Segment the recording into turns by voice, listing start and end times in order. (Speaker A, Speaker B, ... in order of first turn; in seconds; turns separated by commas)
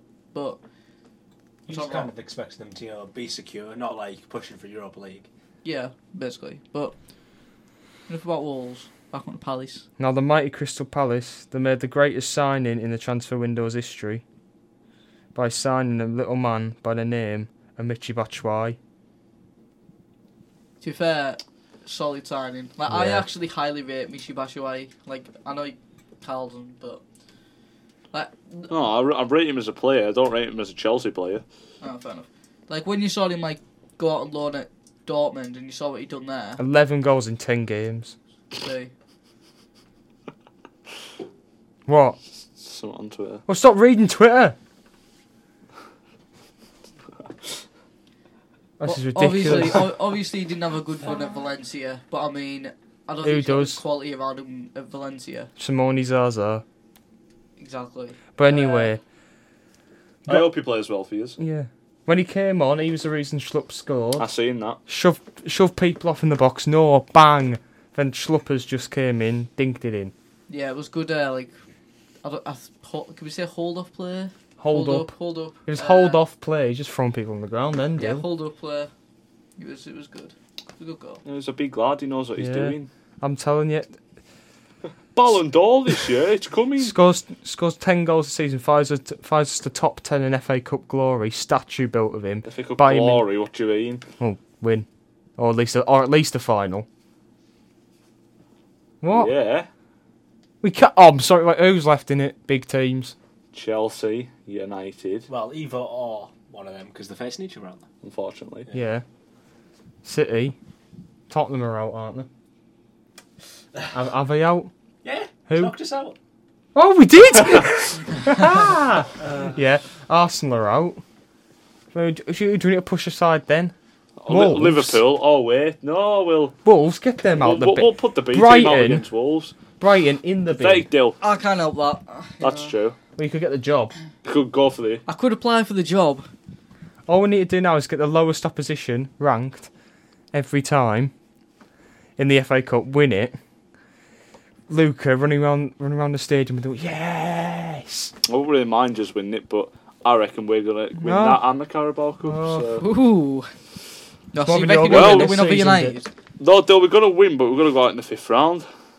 Speaker A: 0.3-0.6, Speaker B: 1.6-5.3, Speaker A: 1.7-2.1, Speaker A: 5.6-6.9, Speaker A: 8.1-9.8, Speaker C: 10.0-14.2, Speaker C: 15.3-18.8, Speaker A: 20.8-27.0, Speaker C: 22.9-23.2, Speaker A: 28.1-28.7, Speaker D: 28.7-31.4, Speaker A: 31.8-36.6, Speaker C: 36.6-38.1, Speaker A: 38.5-38.9, Speaker C: 41.9-42.2, Speaker D: 42.6-43.4, Speaker C: 43.5-44.5, Speaker C: 48.8-49.9, Speaker A: 48.8-55.5, Speaker C: 53.2-53.8, Speaker C: 55.6-56.6, Speaker A: 57.6-58.9, Speaker C: 58.4-59.0, Speaker D: 60.2-61.4, Speaker C: 61.4-64.3, Speaker D: 64.2-64.8, Speaker C: 64.9-70.1, Speaker A: 70.5-71.5, Speaker A: 72.2-76.2, Speaker C: 74.6-75.1, Speaker C: 75.6-78.2, Speaker A: 78.0-78.9, Speaker A: 79.6-81.2, Speaker D: 81.2-82.9, Speaker C: 82.4-83.9, Speaker D: 85.1-86.9, Speaker C: 86.8-93.2, Speaker D: 92.5-94.0, Speaker C: 94.2-94.8, Speaker C: 95.4-96.8, Speaker C: 99.0-99.3, Speaker D: 99.1-99.7, Speaker C: 100.6-103.1, Speaker D: 103.5-105.3, Speaker B: 105.3-107.8, Speaker D: 108.0-108.7, Speaker C: 108.7-109.0, Speaker C: 110.0-110.5, Speaker C: 111.3-112.3, Speaker C: 113.9-114.7, Speaker B: 115.0-116.2, Speaker C: 116.7-121.0, Speaker B: 119.2-119.6, Speaker C: 121.9-123.7, Speaker D: 124.2-126.5, Speaker C: 124.3-125.0, Speaker C: 126.6-129.1, Speaker D: 127.4-129.6, Speaker C: 129.8-130.9, Speaker D: 130.6-131.2, Speaker A: 131.2-132.7, Speaker D: 132.4-132.9, Speaker C: 133.2-133.9, Speaker D: 134.2-135.0, Speaker A: 135.1-136.3, Speaker C: 137.1-139.7, Speaker C: 140.3-141.1, Speaker C: 142.2-143.3, Speaker C: 144.7-148.1, Speaker D: 148.2-152.8, Speaker C: 151.0-151.4, Speaker C: 152.2-152.7, Speaker A: 152.8-153.5, Speaker A: 154.3-156.1, Speaker C: 154.4-155.9, Speaker D: 154.9-155.5, Speaker D: 156.4-158.7